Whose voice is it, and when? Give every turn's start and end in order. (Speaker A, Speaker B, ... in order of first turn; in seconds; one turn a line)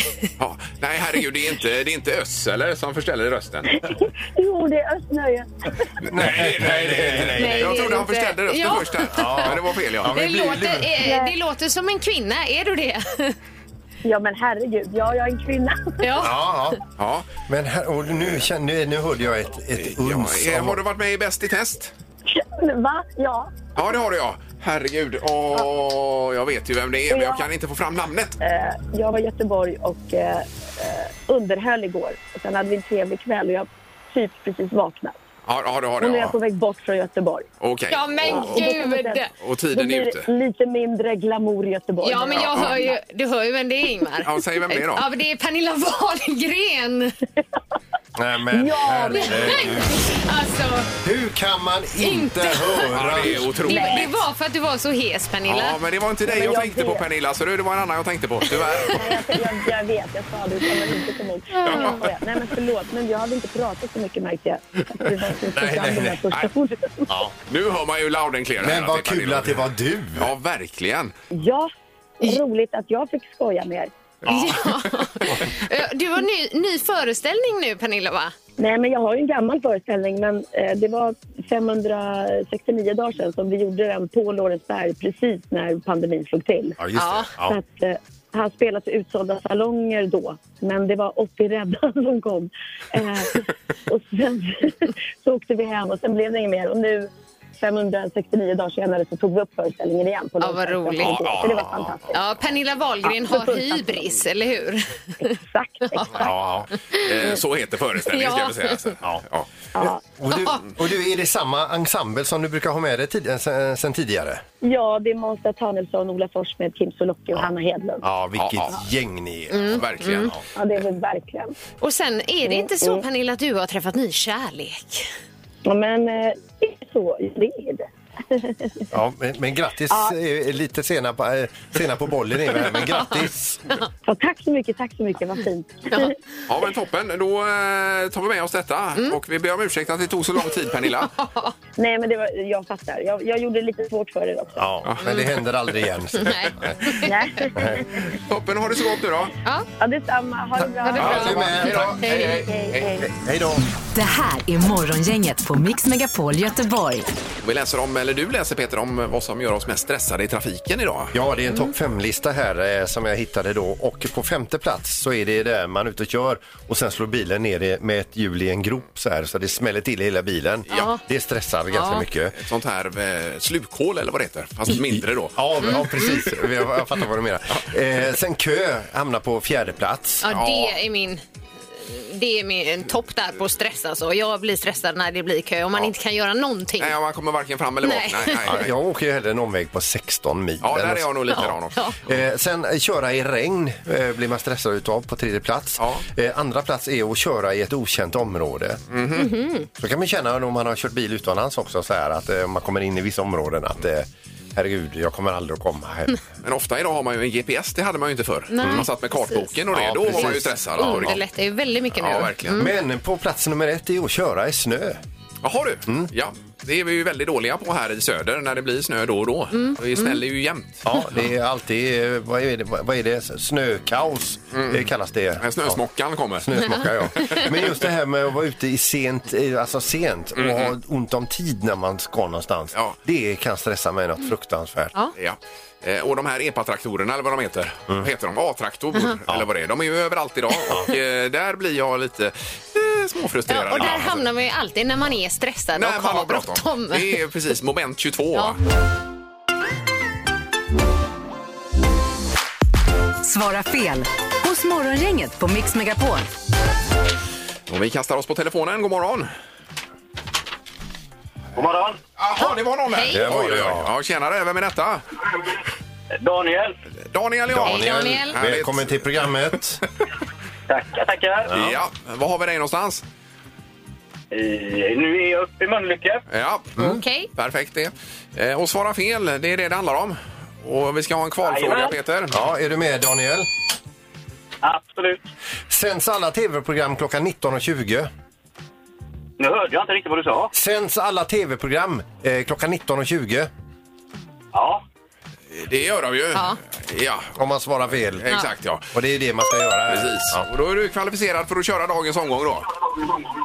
Speaker A: 0.4-3.8
Speaker B: 3.7-5.7
Speaker A: 6.0-10.2
Speaker C: 6.1-8.0
Speaker D: 7.3-9.5
Speaker C: 9.1-10.9
Speaker D: 10.1-13.3
Speaker B: 11.0-11.3
Speaker B: 14.0-16.2
Speaker D: 16.0-16.5
Speaker C: 16.2-16.8
Speaker A: 17.0-17.3
Speaker C: 17.5-20.8
Speaker A: 19.8-21.9
Speaker B: 22.3-23.6
Speaker A: 23.7-28.4
Speaker B: 27.1-27.4
Speaker B: 28.4-35.1
Speaker A: 35.5-36.4
Speaker B: 36.0-37.5
Speaker A: 37.6-38.6
Speaker D: 37.9-39.3
Speaker B: 38.2-43.0
Speaker A: 39.4-40.3
Speaker D: 42.0-47.1
Speaker A: 42.3-42.8
Speaker A: 44.2-45.1
Speaker C: 48.1-50.1
Speaker B: 48.5-49.8
Speaker D: 49.0-50.9
Speaker C: 51.0-53.6
Speaker D: 52.0-55.8
Speaker A: 52.9-54.1
Speaker B: 53.7-54.1
Speaker A: 55.5-59.0
Speaker B: 56.2-57.0
Speaker D: 58.6-59.1
Speaker B: 58.9-67.1
Speaker D: 61.5-62.0
Speaker A: 61.6-62.0
Speaker C: 65.5-66.3
Speaker C: 67.1-67.3
Speaker A: 67.5-69.6
Speaker C: 68.6-70.3
Speaker A: 70.2-71.1
Speaker B: 71.3-71.7
Speaker B: 72.2-73.9
Speaker A: 74.2-74.9
Speaker D: 74.3-78.3
Speaker B: 78.6-86.8
Speaker C: 86.8-87.5
Speaker D: 86.9-87.3
Speaker B: 87.4-102.2
Speaker D: 100.4-101.3
Speaker A: 101.0-101.7
Speaker C: 101.4-101.9
Speaker D: 102.1-105.3
Speaker B: 103.0-104.2
Speaker B: 105.4-106.3
Speaker D: 105.8-106.3
Speaker C: 106.1-106.7
Speaker D: 106.9-107.4
Speaker A: 107.0-109.5
Speaker D: 108.1-108.9
Speaker C: 109.8-114.4
Speaker D: 110.3-110.7
Speaker B: 114.6-118.0
Speaker C: 118.0-120.4
Speaker A: 118.3-118.7
Speaker D: 119.5-120.3
Speaker A: 119.7-120.3
Speaker B: 120.5-121.5
Speaker D: 121.8-125.1
Speaker B: 122.4-123.0
Speaker B: 125.7-128.8
Speaker C: 128.9-133.7
Speaker D: 132.6-133.8
Speaker B: 134.1-136.2
Speaker A: 136.5-141.1
Speaker D: 140.9-141.5
Speaker B: 141.8-144.6
Speaker C: 144.6-146.7
Speaker A: 144.8-145.1
Speaker D: 146.1-147.1
Speaker B: 147.0-148.1
Speaker A: 148.1-149.3
Speaker B: 149.8-153.0
Speaker D: 150.8-152.4
Speaker A: 150.9-153.0
Speaker C: 151.0-152.0
Speaker C: 153.0-153.6
Speaker E: 153.9-157.1
Speaker A: 157.4-161.2
Speaker C: 161.1-172.3
Speaker D: 170.7-171.0
Speaker D: 171.7-172.0
Speaker A: 172.3-176.1
Speaker C: 174.7-180.3
Speaker D: 175.6-176.3
Speaker D: 180.2-181.2
Speaker A: 180.3-180.8
Speaker D: 181.8-186.9
Speaker A: 186.8-188.7
Speaker D: 187.8-188.5
Speaker C: 188.4-191.6
Speaker A: 190.6-192.2
Speaker D: 191.3-191.9
Speaker C: 192.1-198.8
Speaker A: 195.8-196.0
Speaker A: 198.9-199.3
Speaker D: 199.2-199.7
Speaker C: 199.8-206.2
Speaker A: 206.4-211.2
Speaker D: 208.5-209.5
Speaker C: 209.7-211.2
Speaker D: 210.2-212.7
Speaker A: 212.0-212.6
Speaker C: 212.5-215.0
Speaker A: 215.4-221.3
Speaker D: 219.5-220.2
Speaker C: 220.8-225.8
Speaker A: 224.5-226.6
Speaker C: 226.4-234.9
Speaker D: 226.6-227.5
Speaker A: 227.2-227.8
Speaker A: 230.4-230.7
Speaker A: 235.2-244.2
Speaker D: 243.5-247.1
Speaker C: 243.8-244.0
Speaker A: 245.7-248.6
Speaker E: 253.2-256.3
Speaker A: 257.7-259.3
Speaker F: 261.5-262.0
Speaker A: 262.2-265.0
Speaker D: 262.4-263.2
Speaker C: 263.1-263.9
Speaker F: 266.2-266.8
Speaker A: 267.0-269.3
Speaker C: 267.5-269.8
Speaker D: 267.6-268.4
Speaker F: 270.7-271.5
Speaker C: 271.4-271.8
Speaker A: 271.5-273.0
Speaker F: 274.3-276.2
Speaker A: 276.3-282.4
Speaker D: 276.8-277.3
Speaker F: 281.4-281.9
Speaker C: 282.3-283.5
Speaker F: 284.6-285.2
Speaker C: 285.7-288.1
Speaker F: 289.4-290.5
Speaker C: 290.5-293.5
Speaker F: 294.5-294.8
Speaker A: 295.5-297.4
Speaker C: 297.4-298.3
Speaker A: 298.1-298.9
Speaker C: 298.9-300.4
Speaker A: 299.9-302.7